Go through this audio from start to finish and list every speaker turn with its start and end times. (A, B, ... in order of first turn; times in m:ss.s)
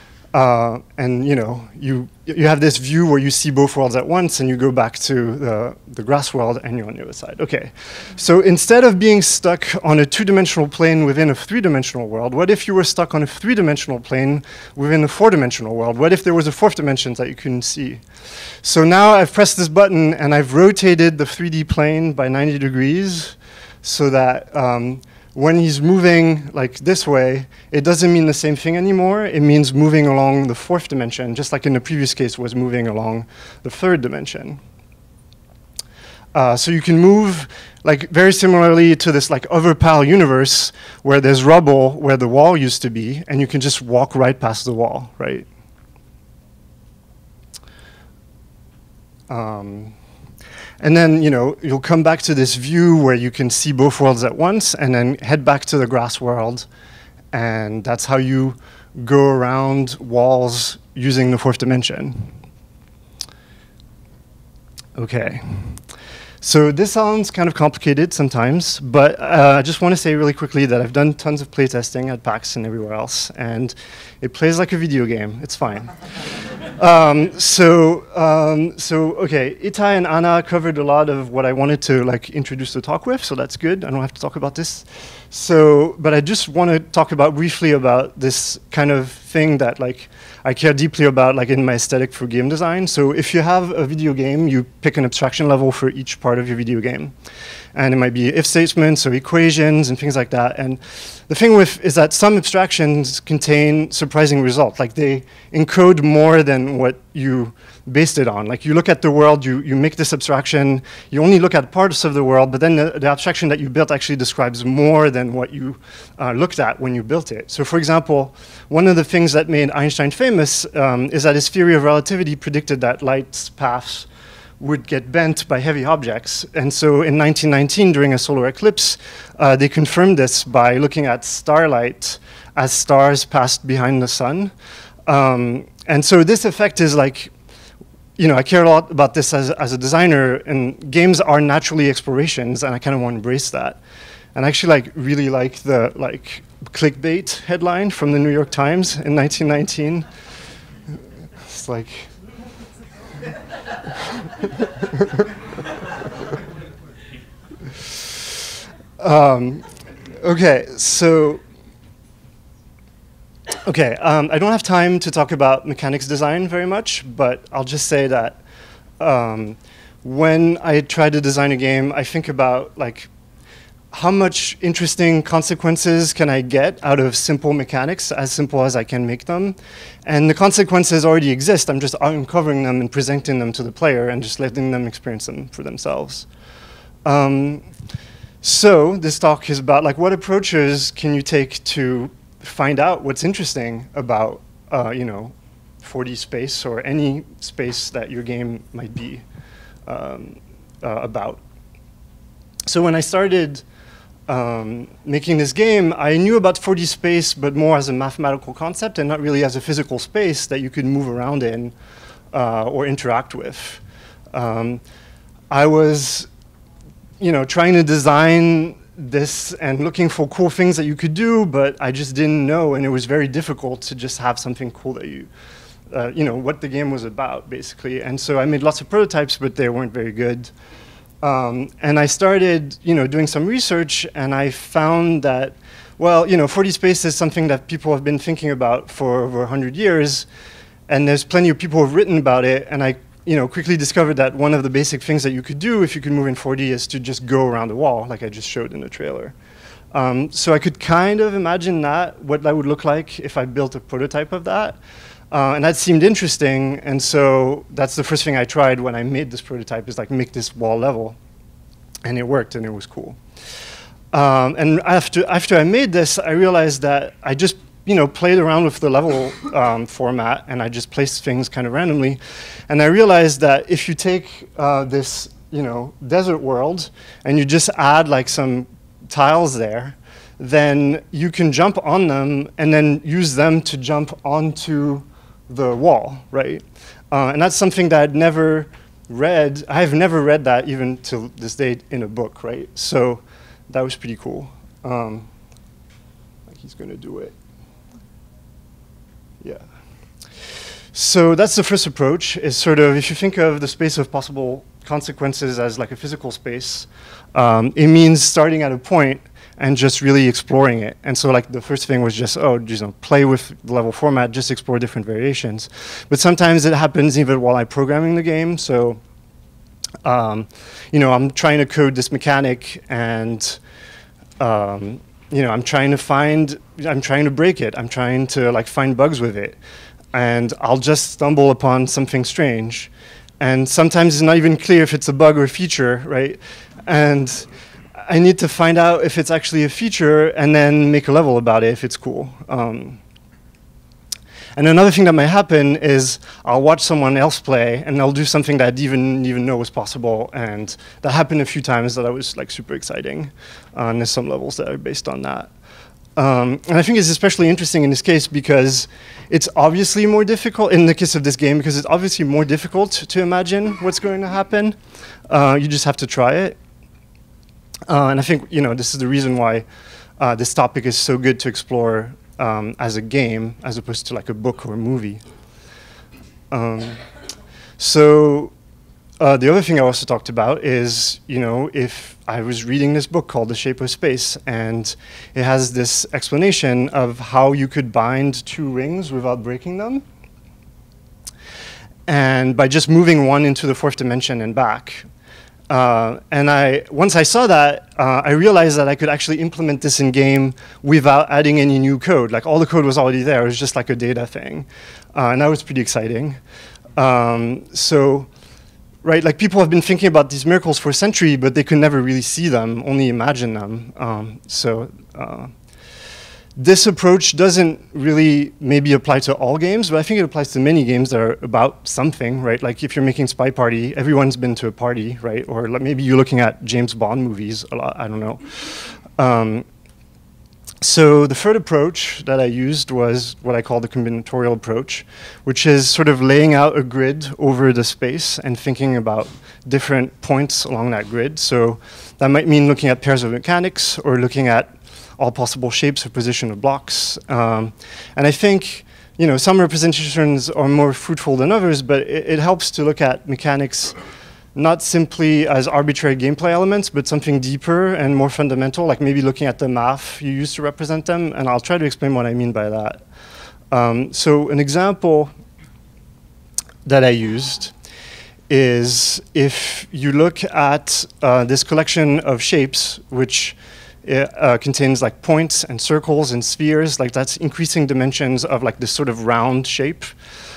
0:00.3-0:18.0 A
0:18.6-0:34.6 A
0:36.3-0:45.5 A
0:49.3-0:50.0 A
0:50.8-0:56.7 A
0:57.3-1:02.3 A
1:05.0-1:05.8 A
1:06.4-1:16.0 A
1:16.8-1:37.1 A
1:37.8-2:04.1 A
2:04.6-2:14.5 A
2:15.1-2:17.3 A
2:18.2-2:23.8 A
2:24.4-2:30.1 A
2:31.4-2:32.1 A
2:34.9-2:35.2 A
2:39.0-2:41.4 A
2:43.6-2:48.4 A
2:49.0-2:53.1 A
2:53.9-3:06.3 A
3:07.0-3:07.7 A
3:08.4-3:19.2 A
3:19.9-3:21.4 A
3:22.7-3:23.6 A
3:24.3-3:31.7 A
3:32.3-3:34.8 A
3:35.5-3:36.3 A
3:37.2-3:45.3 A
3:45.9-3:50.5 A
3:51.2-4:00.3 A
4:00.9-4:09.4 A
4:09.9-4:14.8 A
4:15.3-4:21.2 A
4:22.0-4:23.2 A
4:24.1-4:55.3 A
4:56.5-4:57.3 A
5:00.9-5:19.0 A
5:20.0-5:23.6 A
5:24.4-5:29.6 A
5:30.1-5:43.0 A
5:44.6-5:55.5 A
5:56.2-6:04.8 A
6:05.3-6:06.6 A
6:07.9-6:09.6 A
6:10.2-6:15.2 A
6:16.5-6:17.0 A
6:17.8-6:18.5 A
6:19.2-6:30.0 A
6:32.1-6:35.0 A
6:35.7-6:46.4 A
6:47.0-6:48.3 A
6:49.0-6:55.5 A
6:56.6-7:09.7 A
7:10.8-7:34.0 A
7:34.6-7:43.0 A
7:43.7-7:45.3 A
7:46.8-7:47.7 A
7:48.5-8:00.1 A